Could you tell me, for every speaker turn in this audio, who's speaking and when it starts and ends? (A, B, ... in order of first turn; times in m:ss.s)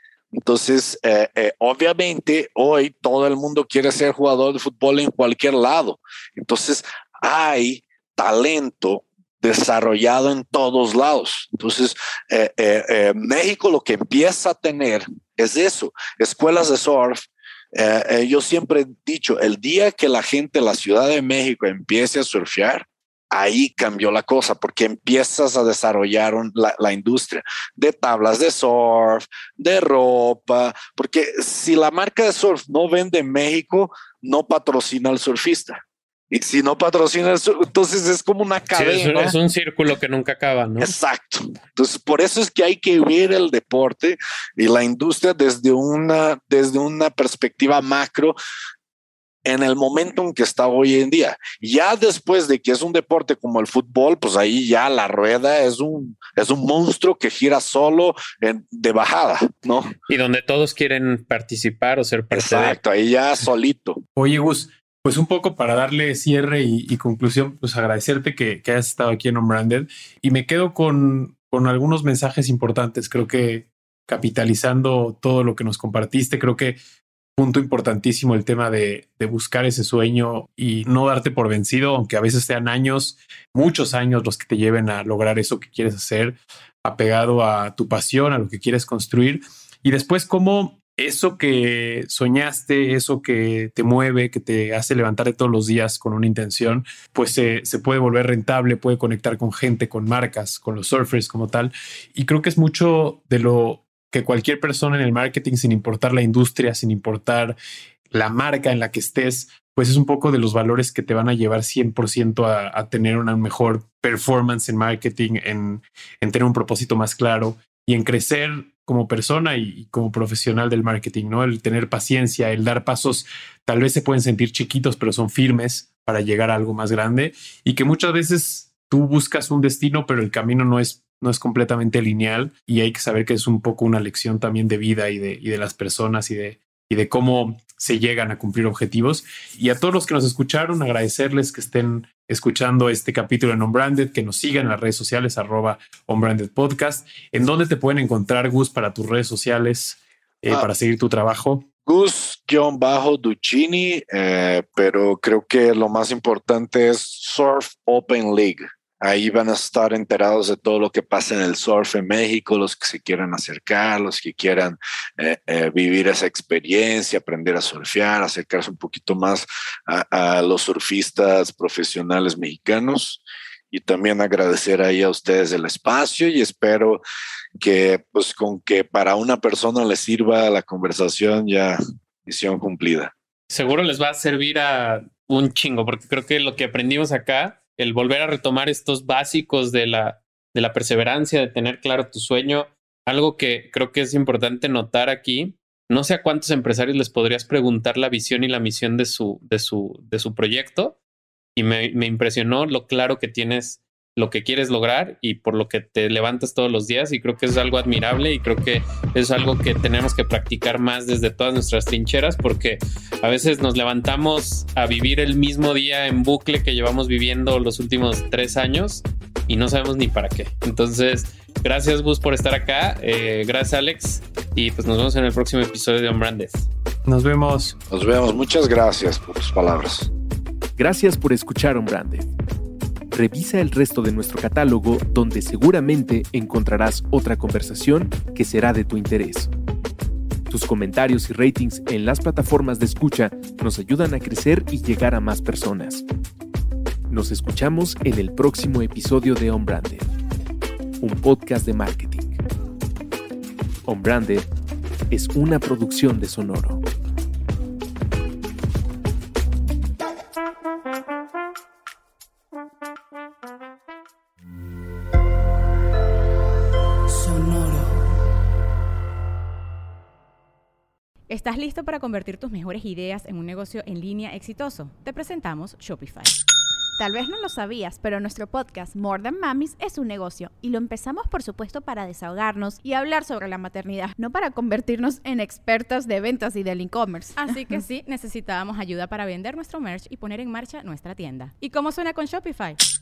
0:00.3-0:39.4 A
0:38.7-0:40.9 B
0:40.8-0:48.4 A
0:49.4-0:59.9 A
1:00.1-1:02.8 B
1:02.3-1:04.0 A
1:04.2-1:16.8 C
1:17.4-1:47.6 C
1:48.1-2:31.7 C
2:31.9-2:57.0 A
2:57.6-3:03.1 A
3:03.5-3:21.0 B
3:21.6-3:46.7 B
3:47.1-3:47.8 C
3:47.9-3:50.1 A
3:50.8-3:52.3 D
3:53.1-3:59.5 D
4:00.5-4:06.0 D
4:07.1-4:10.1 D
4:11.0-4:12.4 D
4:13.9-4:14.5 D
4:15.1-4:16.8 D
4:31.3-4:36.3 E
4:37.0-4:47.8 F
4:47.4-4:52.8 E